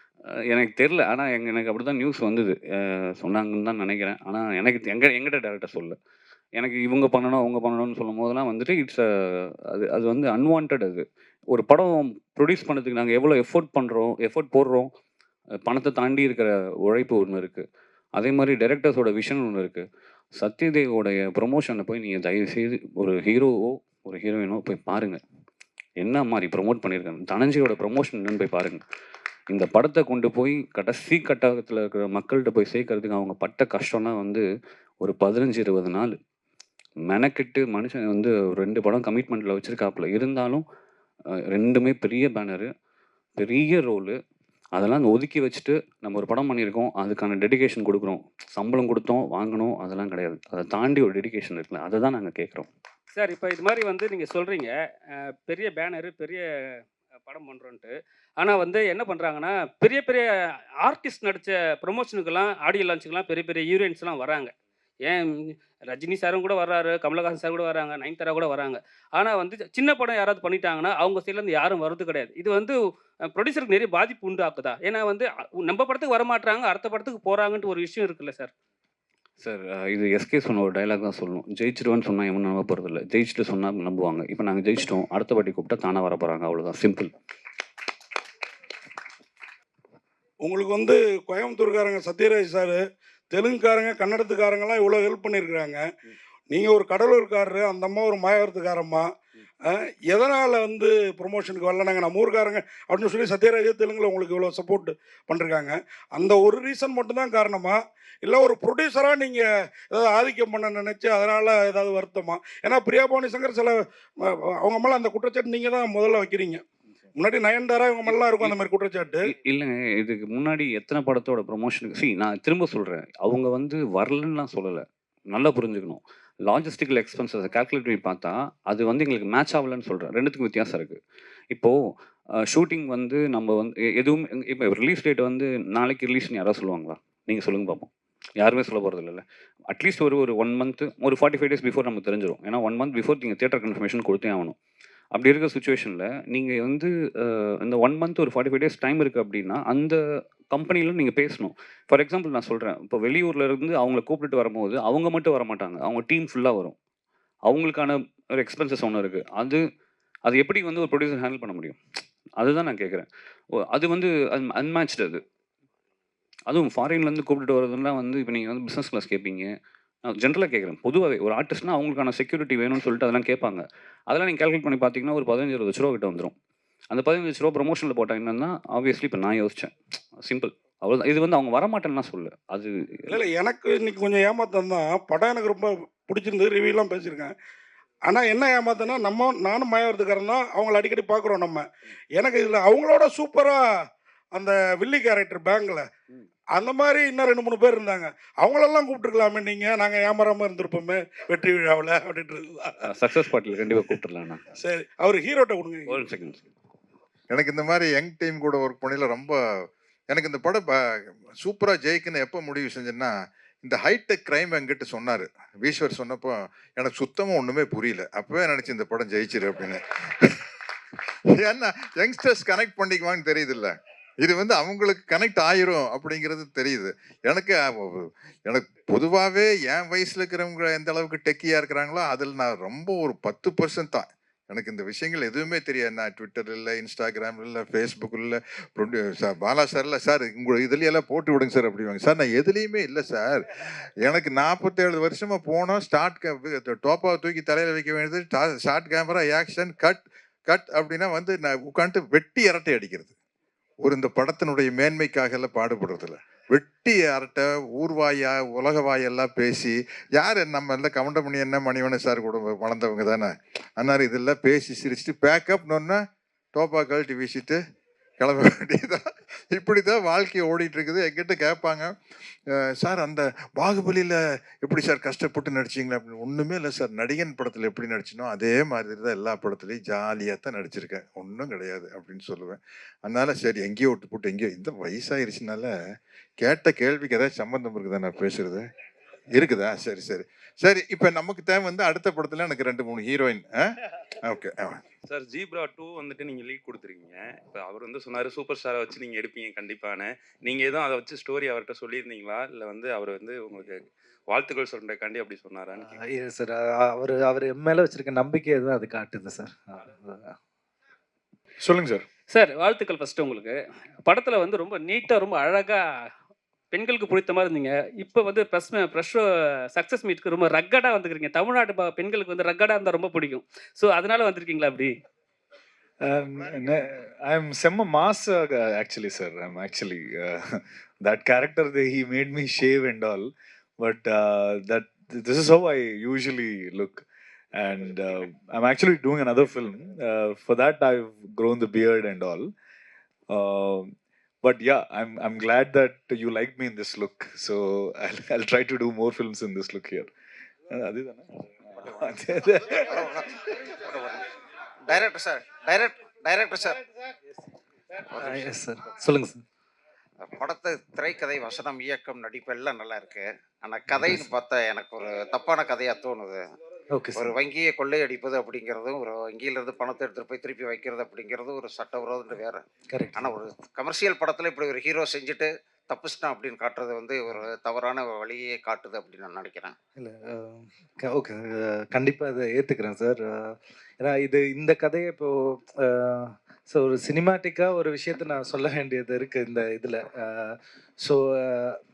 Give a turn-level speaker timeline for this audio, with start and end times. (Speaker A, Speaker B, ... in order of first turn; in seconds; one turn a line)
Speaker A: 0.5-6.0
Speaker A: 6.6-14.9
Speaker A: 15.7-17.7
Speaker A: 18.2-19.9
Speaker A: 20.4-25.2
Speaker A: 26.0-28.8
Speaker A: 29.5-34.5
Speaker A: 35.0-36.1
Speaker A: 37.1-40.6
Speaker A: 41.5-42.7
Speaker A: 43.4-44.1
Speaker A: 44.8-52.7
Speaker B: 53.1-54.7
Speaker B: 55.3-56.5
Speaker B: 57.3-60.3
Speaker B: 60.8-64.5
Speaker B: 65.9-72.8
Speaker B: 73.3-78.5
Speaker A: 79.4-87.1
Speaker C: 90.4-95.8
Speaker C: 96.5-99.1
Speaker C: 99.7-116.6
Speaker C: 117.2-119.3
Speaker A: 118.1-118.5
Speaker A: 119.3-131.0
Speaker A: 132.5-144.6
Speaker A: 145.1-150.0
Speaker A: 150.5-156.8
Speaker A: 157.5-159.6
Speaker A: 160.3-161.8
Speaker A: 162.4-163.1
Speaker A: 163.7-165.2
Speaker A: 166.5-169.5
Speaker A: 170.1-176.3
Speaker A: 176.9-183.2
Speaker C: 183.1-187.3
Speaker C: 188.1-191.7
Speaker C: 192.2-193.6
Speaker C: 194.3-195.9
Speaker C: 196.6-202.8
Speaker A: 202.9-204.4
Speaker C: 204.6-206.0
Speaker A: 205.9-206.4
Speaker D: 207.3-209.4
Speaker D: 210.1-210.8
Speaker D: 211.4-220.4
Speaker D: 221.3-253.2
Speaker D: 253.8-266.0
Speaker D: 266.6-267.6
Speaker D: 268.2-271.9
Speaker D: 272.6-285.7
Speaker D: 286.4-288.7
Speaker D: 289.4-293.7
Speaker D: 294.2-294.8
Speaker E: 295.1-306.0
Speaker F: 305.8-310.4
Speaker B: 312.3-315.8
Speaker B: 316.7-324.9
Speaker G: 326.1-330.4
Speaker G: 331.0-333.3
Speaker G: 333.8-337.0
Speaker G: 337.6-342.5
Speaker G: 343.3-343.9
Speaker G: 344.4-350.1
Speaker G: 350.7-351.3
Speaker H: 351.7-354.2
Speaker H: 354.9-356.8
Speaker H: 358.1-358.5
Speaker F: 358.2-359.4
Speaker H: 360.2-366.5
Speaker F: 366.9-367.3
Speaker H: 367.1-379.8
Speaker F: 372.9-373.3
Speaker F: 380.0-391.8